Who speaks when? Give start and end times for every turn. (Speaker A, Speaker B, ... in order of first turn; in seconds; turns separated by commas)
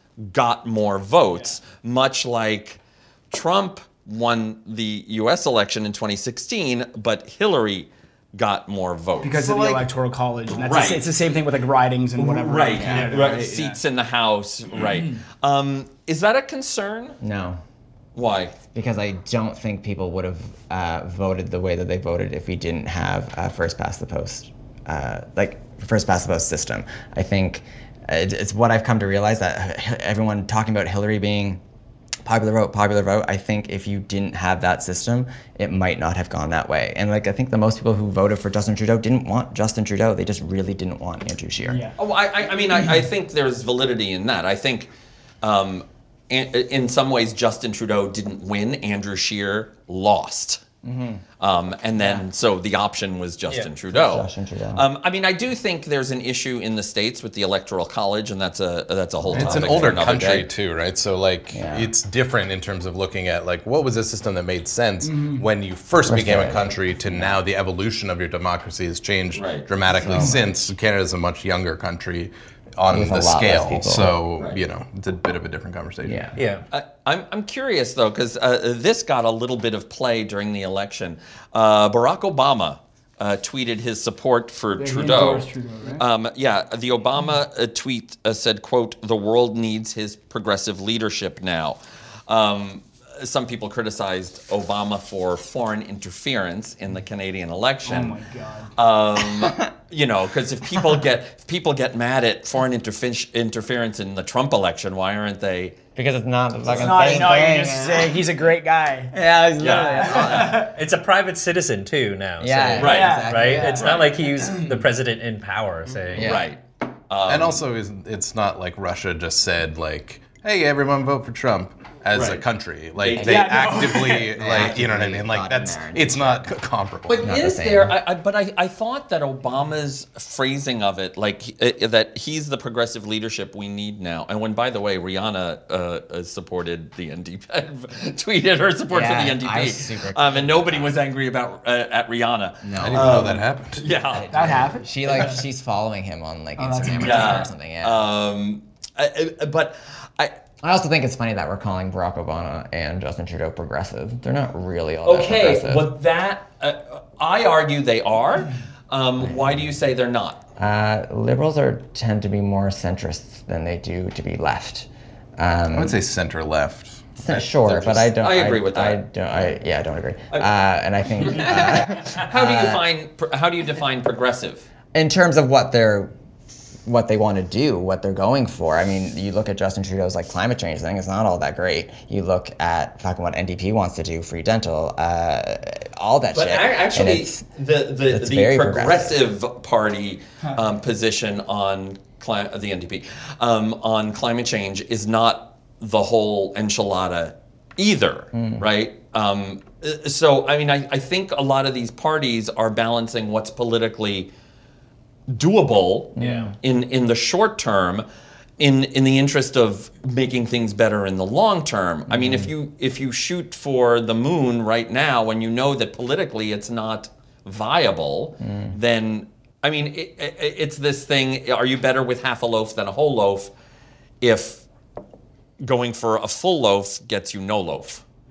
Speaker A: 0.2-2.8, Speaker A: 3.3-9.8, Speaker B: 9.2-13.8, Speaker A: 10.6-11.1, Speaker A: 12.2-17.2, Speaker C: 17.2-17.6, Speaker A: 18.1-18.6, Speaker C: 18.7-31.6, Speaker C: 32.2-41.8, Speaker B: 41.6-42.0, Speaker A: 42.0-44.9, Speaker A: 45.4-50.6, Speaker C: 50.8-51.2, Speaker A: 51.4-60.5, Speaker C: 53.9-54.9, Speaker D: 59.3-76.3, Speaker C: 59.3-59.9, Speaker C: 61.5-61.9, Speaker B: 65.0-65.5, Speaker C: 66.1-67.4, Speaker A: 69.3-69.7, Speaker C: 70.0-70.5, Speaker C: 72.9-74.2, Speaker C: 76.0-76.4, Speaker E: 76.4-76.6, Speaker A: 76.7-98.2, Speaker B: 84.8-86.0, Speaker B: 97.8-98.7, Speaker A: 98.8-105.8, Speaker C: 99.2-99.6, Speaker C: 106.0-108.2, Speaker B: 106.7-110.7, Speaker C: 109.1-110.5, Speaker A: 109.6-110.6, Speaker E: 110.4-116.3, Speaker C: 112.4-114.1, Speaker A: 112.8-113.2, Speaker B: 112.8-114.8, Speaker C: 116.1-116.5, Speaker A: 116.2-117.7, Speaker D: 117.2-127.3, Speaker A: 122.1-122.4, Speaker A: 123.0-123.6, Speaker B: 123.2-124.4, Speaker C: 123.6-126.6, Speaker A: 127.1-144.3, Speaker C: 127.2-128.0, Speaker C: 138.9-141.0, Speaker C: 142.6-143.3, Speaker D: 142.8-143.8, Speaker C: 144.1-148.1, Speaker B: 144.3-145.0, Speaker B: 146.6-147.5, Speaker A: 146.9-150.3, Speaker C: 150.6-155.9, Speaker A: 155.1-160.4, Speaker C: 159.2-159.8, Speaker C: 160.6-166.0, Speaker D: 165.7-168.1, Speaker C: 167.2-172.9, Speaker A: 168.0-169.0, Speaker A: 171.2-174.7, Speaker C: 174.9-176.1, Speaker C: 176.9-187.5, Speaker A: 186.3-204.3, Speaker C: 188.1-189.2, Speaker C: 198.3-198.7, Speaker A: 205.3-208.1, Speaker C: 206.2-206.6, Speaker A: 208.6-223.5, Speaker C: 212.1-212.5, Speaker C: 218.4-218.8, Speaker A: 224.2-224.7, Speaker A: 225.6-228.0